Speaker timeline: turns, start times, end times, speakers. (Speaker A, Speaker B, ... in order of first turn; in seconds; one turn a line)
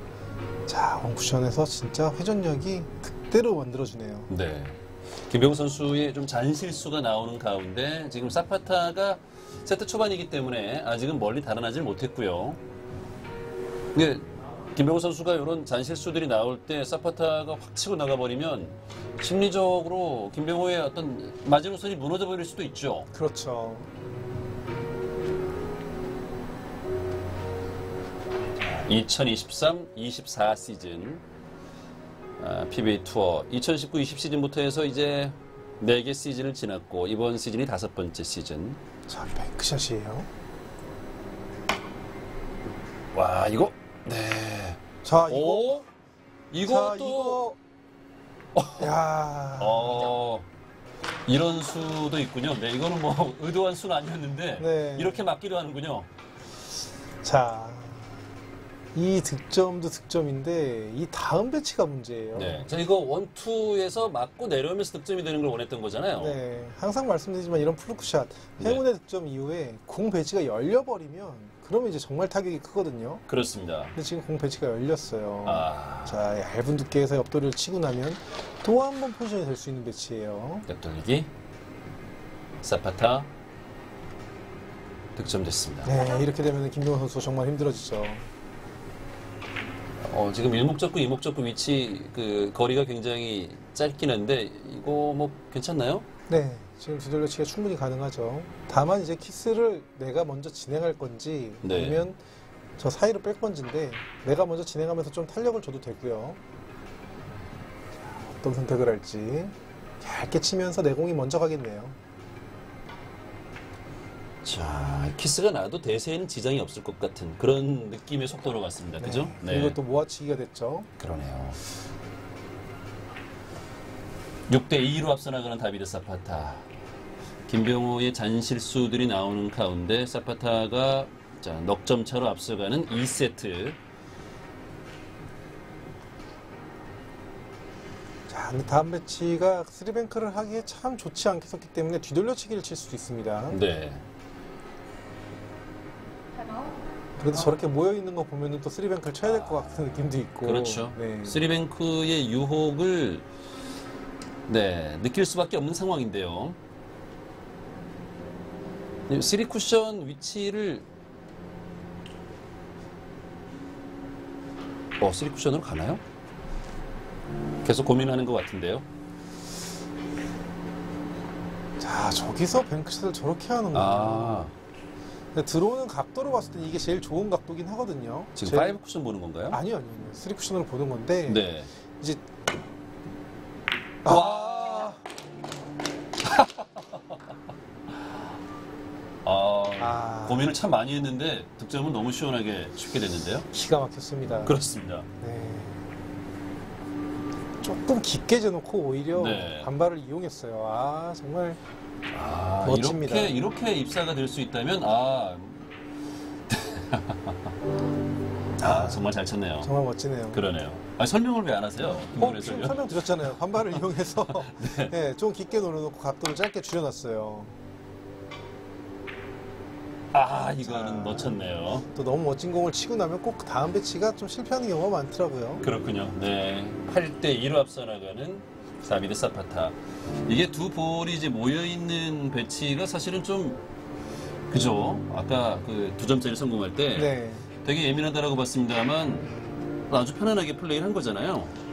Speaker A: 0.7-4.3
Speaker B: 4.3-12.6
Speaker B: 13.9-23.1
Speaker A: 23.1-23.9
Speaker B: 28.6-31.2
Speaker B: 32.4-38.8
Speaker A: 39.1-40.3
Speaker B: 43.1-45.9
Speaker A: 45.0-45.9
Speaker B: 46.5-47.4
Speaker A: 46.6-47.6
Speaker B: 48.5-49.0
Speaker A: 48.8-50.1
Speaker B: 49.6-50.5
Speaker B: 51.3-56.1
Speaker A: 54.6-55.2
Speaker A: 57.2-58.1
Speaker A: 58.9-62.6
Speaker B: 62.3-66.4
Speaker A: 66.2-73.2
Speaker B: 73.3-73.9
Speaker A: 73.9-80.7
Speaker B: 75.4-76.2
Speaker B: 80.7-81.3
Speaker B: 82.6-83.3
Speaker B: 85.1-86.0
Speaker A: 85.8-88.2
Speaker B: 90.0-96.0
Speaker A: 96.3-102.2
Speaker B: 101.6-102.1
Speaker A: 102.8-106.4
Speaker A: 108.1-112.0
Speaker B: 114.4-119.8
Speaker A: 119.0-120.9
Speaker B: 121.0-121.6
Speaker B: 124.5-126.7
Speaker B: 127.5-133.8
Speaker A: 138.3-143.6
Speaker B: 143.5-144.0
Speaker A: 147.2-151.4
Speaker B: 149.2-153.2
Speaker B: 154.5-156.6
Speaker B: 159.1-160.8
Speaker B: 165.0-166.0
Speaker B: 167.6-168.8
Speaker A: 171.8-174.5
Speaker B: 173.7-174.5
Speaker A: 175.3-178.8
Speaker B: 178.3-179.6
Speaker A: 179.5-182.2
Speaker B: 181.3-181.7
Speaker A: 184.0-185.0
Speaker B: 184.1-185.0
Speaker B: 186.2-187.0
Speaker B: 189.2-193.5
Speaker A: 189.8-190.5
Speaker A: 193.5-194.6
Speaker B: 194.4-195.1
Speaker A: 195.2-195.8
Speaker A: 197.6-201.6
Speaker B: 199.1-199.7
Speaker B: 202.1-205.7
Speaker A: 202.6-203.3
Speaker B: 206.5-207.4
Speaker B: 208.6-209.7
Speaker A: 208.6-209.0
Speaker A: 209.6-210.4
Speaker B: 210.3-214.9
Speaker A: 212.2-217.5
Speaker B: 220.1-221.8
Speaker A: 220.6-225.6
Speaker B: 225.6-229.7
Speaker B: 230.2-233.6
Speaker B: 234.5-239.3
Speaker A: 236.9-237.5
Speaker B: 239.9-241.6